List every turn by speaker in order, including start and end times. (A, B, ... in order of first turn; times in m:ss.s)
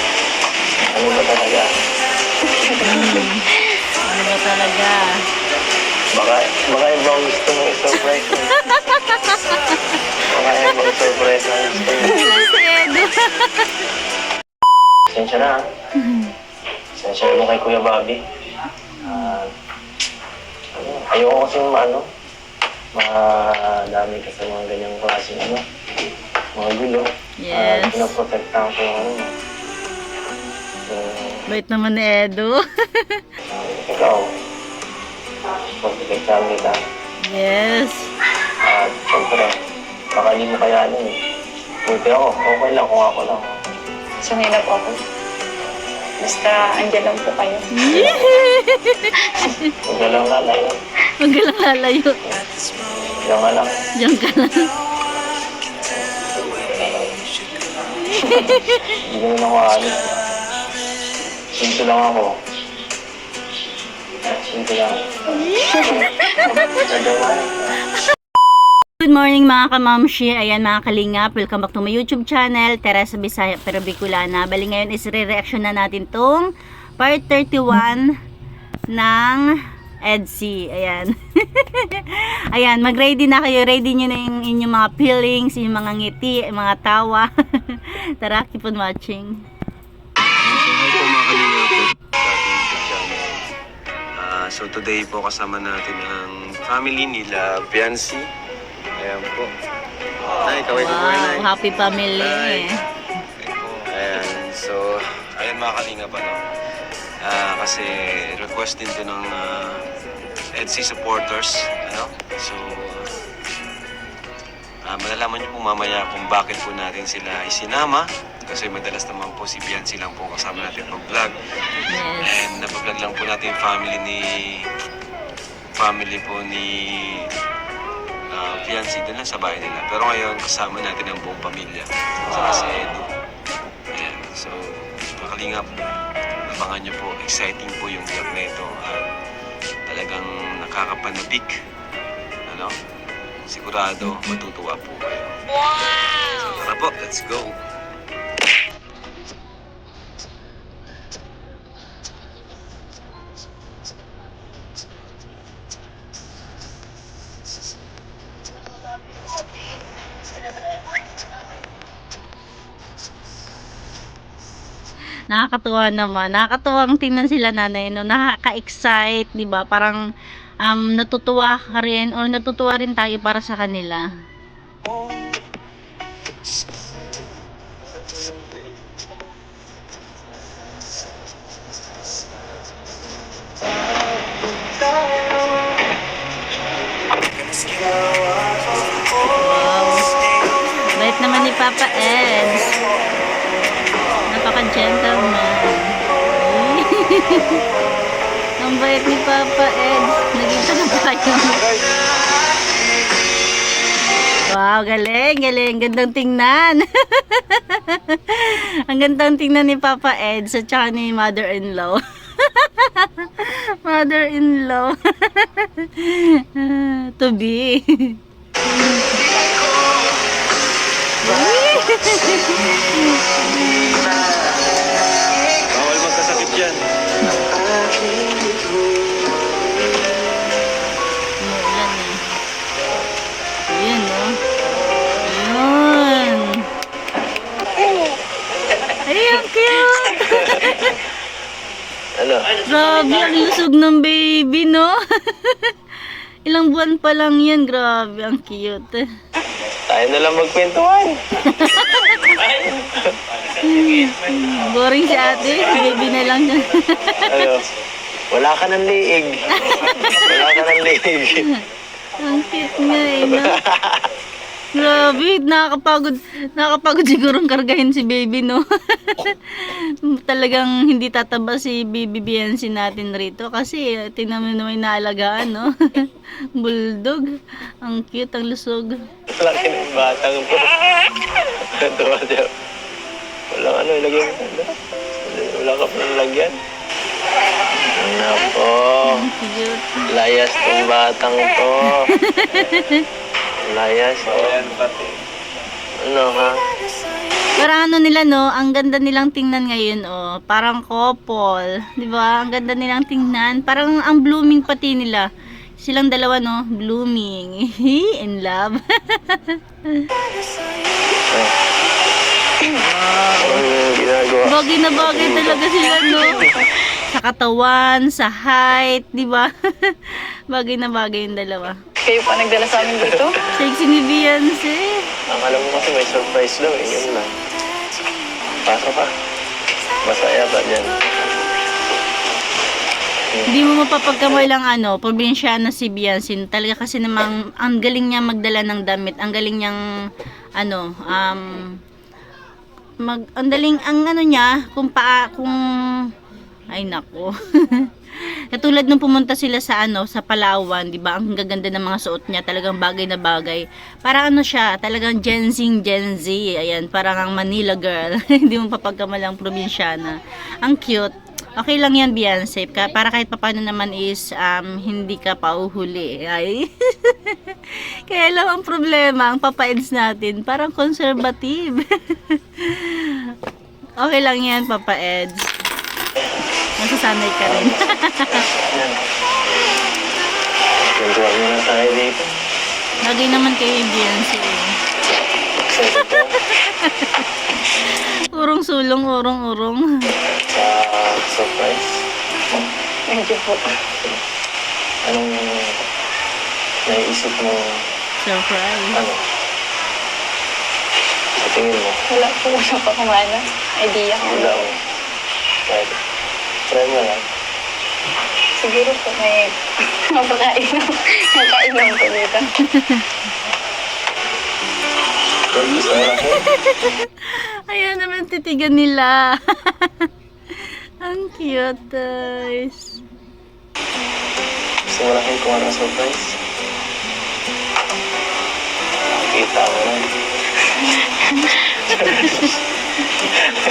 0:00.9-0:01.7 A
0:02.5-0:03.2 B
0:02.8-0:03.4 C
0:04.1-0:05.0 C
0:06.2-0:08.5 A
0:08.6-0:09.4 C
0:10.3-0:12.2 A
0:11.8-0:13.7 C
0:15.1-0:15.6 A
0:17.0-0:18.2 A
0:19.0-0:19.5 A
0:19.1-0:19.3 C
0:20.7-0:22.0 A
0:23.0-0:25.6 A
0:26.6-0:29.3 A
0:27.4-0:28.1 C
0:30.9-0:31.4 A
0:31.5-0:33.2 C
0:33.5-0:34.2 A
0:35.8-0:36.8 A
0:37.2-0:38.1 C
0:38.6-0:39.5 A
0:40.1-0:41.1 A
0:41.9-0:43.5 A
0:44.2-0:44.9 B
0:46.2-0:47.6 B
0:47.7-0:49.1 C
0:47.9-0:48.3 A
0:49.8-0:50.7 A
0:51.2-0:52.2 C
0:53.2-0:53.7 A
0:54.0-0:54.7 C
0:56.5-0:57.1 A
0:58.0-0:58.9 C
0:59.0-1:00.0 A
1:01.6-1:02.3 A
1:04.3-1:05.0 A
1:05.6-1:06.4 B
1:06.5-1:07.8 A
1:09.0-1:18.1 C
1:18.9-1:19.5 C
1:20.1-1:29.3 C
1:30.4-1:33.4 D
1:34.2-1:38.2 D
1:39.0-1:39.5 D
1:40.4-1:41.5 D
1:40.7-1:42.8 C
1:42.2-1:42.6 D
1:43.4-1:46.4 D
1:47.2-1:49.8 D
1:50.5-1:53.1 D
1:54.8-2:01.4 D
2:01.9-2:02.4 C
2:02.2-2:04.6 D
2:05.8-2:07.3 D
2:08.3-2:13.0 D
2:13.9-2:15.7 D
2:16.5-2:19.0 D
2:19.9-2:21.5 D
2:22.5-2:22.7 D
2:23.5-2:25.2 D
2:26.2-2:27.5 D
2:45.3-2:50.0 C
2:50.6-2:54.0 C
3:09.3-3:10.0 C
3:11.0-3:12.7 C
3:14.3-3:17.6 C
3:18.6-3:21.6 C
3:21.5-3:21.8 E
3:24.5-3:38.2 C
3:41.2-3:43.5 C
3:45.7-3:46.8 E
3:51.4-3:52.2 C
3:53.7-3:54.3 C
3:55.3-3:56.6 C
3:59.0-4:00.9 C
4:02.2-4:02.5 A
4:02.6-4:05.7 C
4:06.5-4:09.0 C
4:09.9-4:11.2 A
4:11.5-4:12.1 C
4:12.7-4:13.1 A
4:13.6-4:17.5 C
4:17.3-4:17.6 A
4:18.3-4:21.4 A
4:22.2-4:23.5 C
4:23.2-4:23.9 A
4:24.8-4:29.3 C
4:30.1-4:37.2 C
4:37.8-4:39.0 C
4:39.3-4:40.7 A
4:41.8-4:42.5 A
4:43.5-4:46.5 A
4:47.9-4:49.2 A
4:49.0-4:50.0 C
4:50.1-4:52.1 A
4:52.2-4:53.0 C
4:53.6-4:54.7 A
4:54.2-4:55.2 E
4:56.0-4:56.6 A
4:57.6-5:05.2 C
5:05.8-5:10.0 C
5:11.3-5:11.5 A
5:12.8-5:13.6 C
5:13.4-5:15.6 A
5:14.5-5:16.4 C
5:15.8-5:16.6 B
5:17.1-5:21.7 C
5:22.0-5:23.4 B
5:23.5-5:24.9 C
5:25.3-5:27.4 A
5:28.4-5:29.1 A
5:30.0-5:31.0 A
5:33.5-5:39.8 C
5:40.6-5:41.8 C
5:43.0-5:45.6 C
5:46.7-5:47.9 C
5:48.5-6:07.4 C
6:08.1-6:12.9 C
6:14.0-6:15.5 C
6:16.8-6:18.4 C
6:17.4-6:19.1 A
6:20.7-6:22.3 A
6:23.0-6:24.7 C
6:25.6-6:26.3 A
6:26.5-6:27.2 C
6:28.3-6:29.8 C
6:30.5-6:32.0 A
6:33.1-6:33.6 B
6:35.0-6:35.8 A
6:36.9-6:37.8 A
6:38.2-6:39.0 C
6:38.9-6:39.2 A
6:41.4-6:42.0 A
6:42.1-6:44.7 B
6:44.2-6:44.7 A
6:45.7-6:45.9 A
6:46.7-6:47.2 A
6:48.6-6:49.5 B
6:50.1-6:52.4 B
6:52.7-6:53.0 C
6:55.5-6:56.4 A
6:55.8-7:00.1 C
7:01.0-7:02.9 C
7:04.9-7:06.4 A
7:09.1-7:10.0 A
7:11.9-7:12.5 A
7:12.0-7:12.4 C